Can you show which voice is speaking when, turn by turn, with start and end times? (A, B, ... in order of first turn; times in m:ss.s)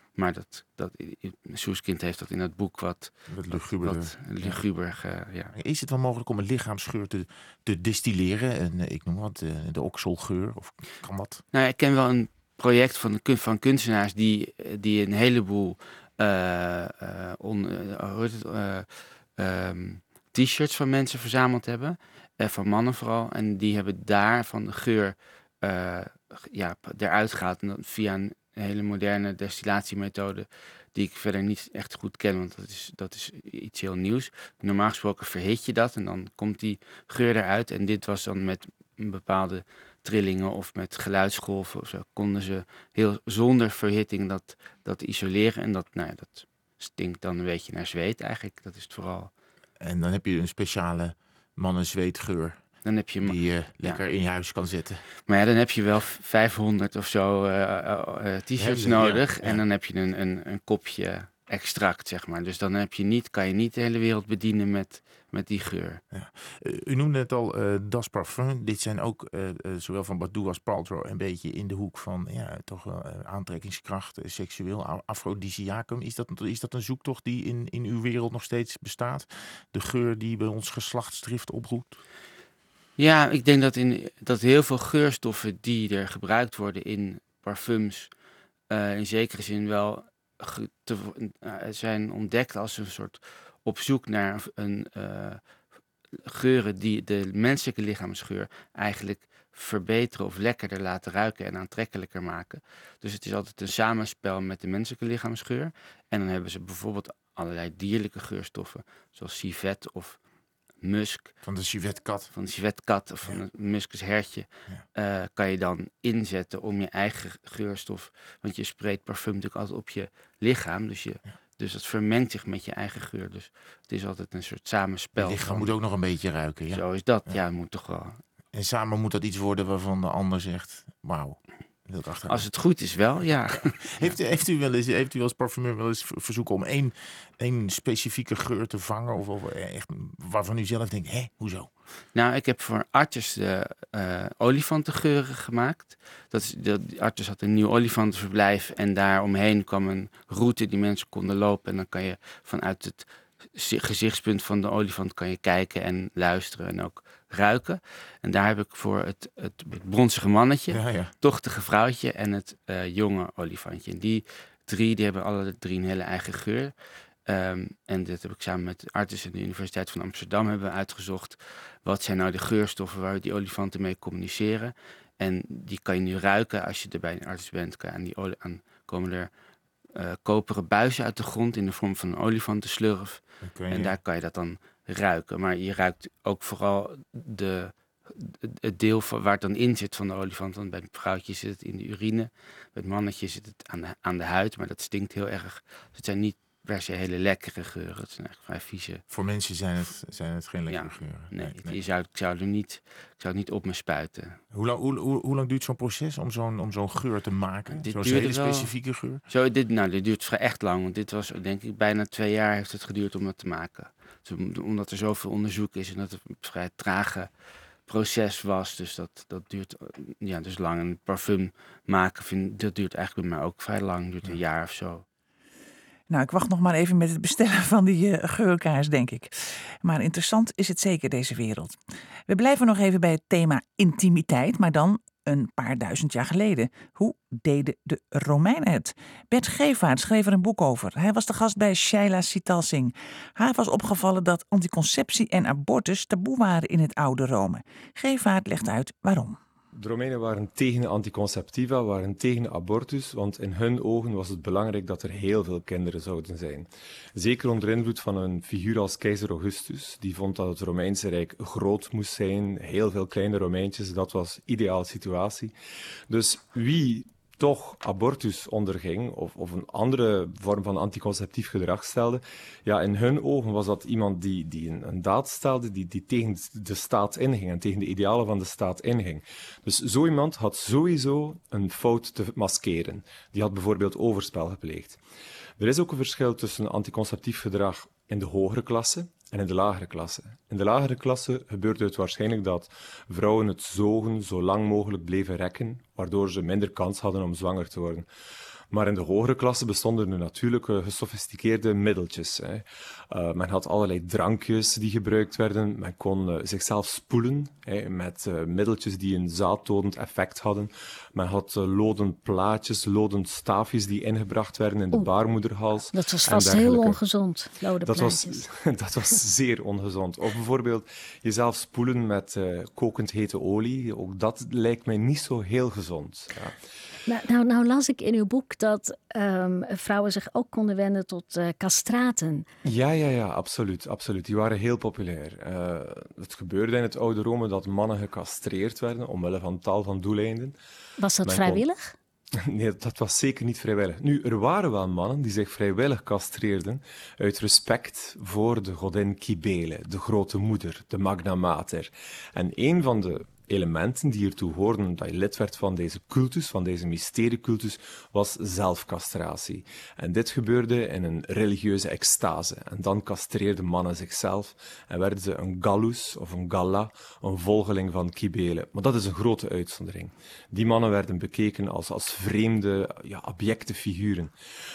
0:00.1-0:05.5 A
0:03.3-0:04.6 B
0:05.5-0:11.4 B
0:11.5-0:49.3 A
0:49.8-0:55.1 B
0:52.8-0:54.0 A
0:55.2-1:06.0 A
0:58.5-0:59.6 B
1:06.1-1:22.0 B
1:23.0-1:28.1 A
1:28.7-1:35.4 A
1:36.2-1:50.2 A
1:50.8-1:51.4 A
1:51.4-1:52.3 B
1:52.3-2:05.7 A
2:05.2-2:07.4 B
2:06.7-2:08.2 A
2:08.5-2:12.5 B
2:12.3-2:14.2 A
2:13.5-2:21.7 B
2:22.1-2:46.7 A
2:40.7-2:41.1 B
2:47.2-2:59.3 A
2:59.9-3:19.0 A
3:03.4-3:04.0 B
3:19.1-3:21.8 B
3:20.7-3:24.4 A
3:24.5-3:29.2 B
3:27.7-3:37.3 A
3:37.8-3:45.0 A
3:46.1-3:49.3 C
3:49.8-3:51.8 C
3:52.3-4:09.4 C
4:09.7-4:25.5 D
4:26.1-4:45.0 D
4:45.6-4:58.1 D
4:58.7-5:17.0 D
5:14.9-5:18.4 E
5:17.8-5:26.6 D
5:27.0-5:32.5 E
5:32.6-5:40.5 D
5:41.0-5:41.9 E
5:41.2-5:41.6 D
5:42.4-6:14.3 D